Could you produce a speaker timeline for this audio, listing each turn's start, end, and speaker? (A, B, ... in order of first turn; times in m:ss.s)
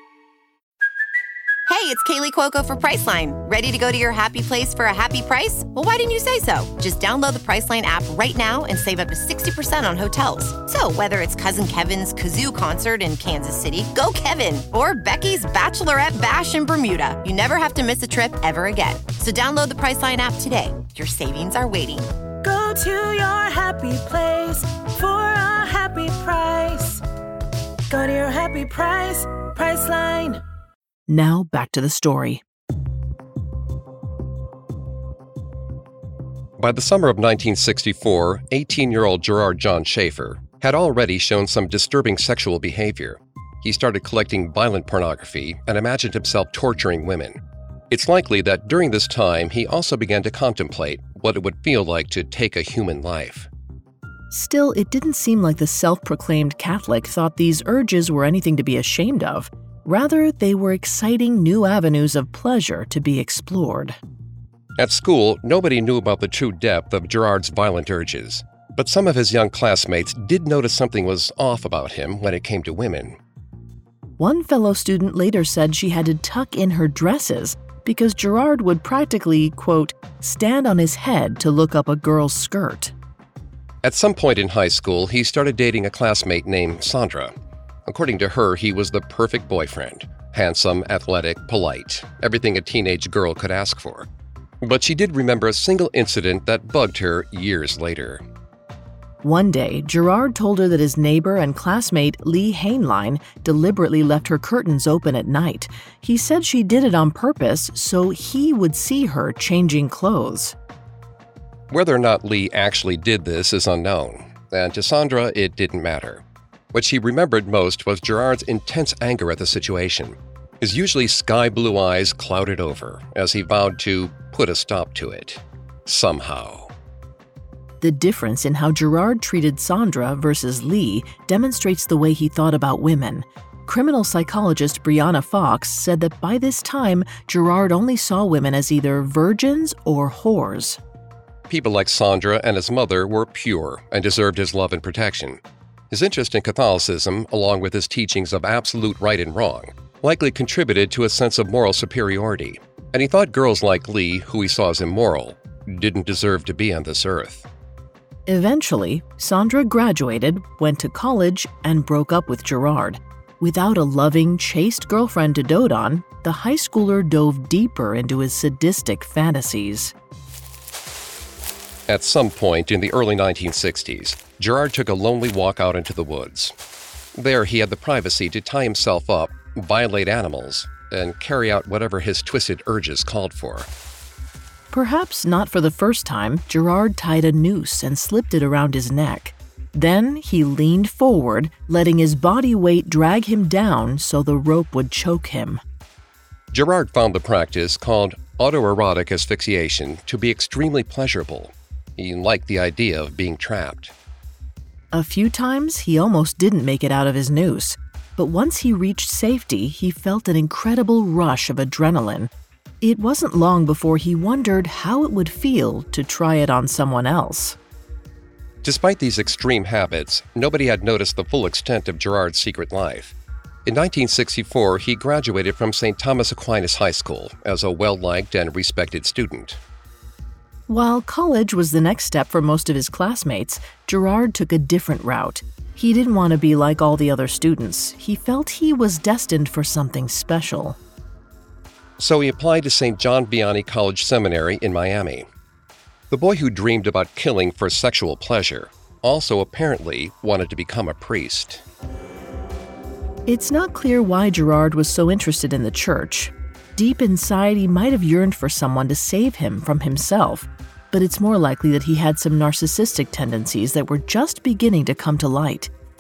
0:01.7-0:22.1 A
0:22.4-0:27.0 B
0:27.9-0:30.4 B
0:31.1-0:32.4 C
0:36.6-0:47.4 D
0:47.9-0:53.5 D
0:54.3-1:04.0 C
1:04.8-1:13.2 D
1:14.2-1:22.9 C
1:23.8-1:27.3 D
1:27.9-1:34.1 D
1:34.6-1:38.2 D
1:39.2-1:50.5 C
1:51.7-2:06.7 D
2:07.8-2:20.8 C
2:21.5-2:37.4 D
2:38.3-2:49.9 C
2:51.9-2:56.5 D
2:57.1-3:03.7 D
3:04.7-3:15.6 C
3:16.5-3:23.9 D
3:24.9-3:37.6 C
3:38.6-3:43.1 D
3:43.6-3:49.6 D
3:50.7-4:00.8 C
4:02.0-4:05.2 D
4:06.1-4:11.6 D
4:13.3-4:25.7 C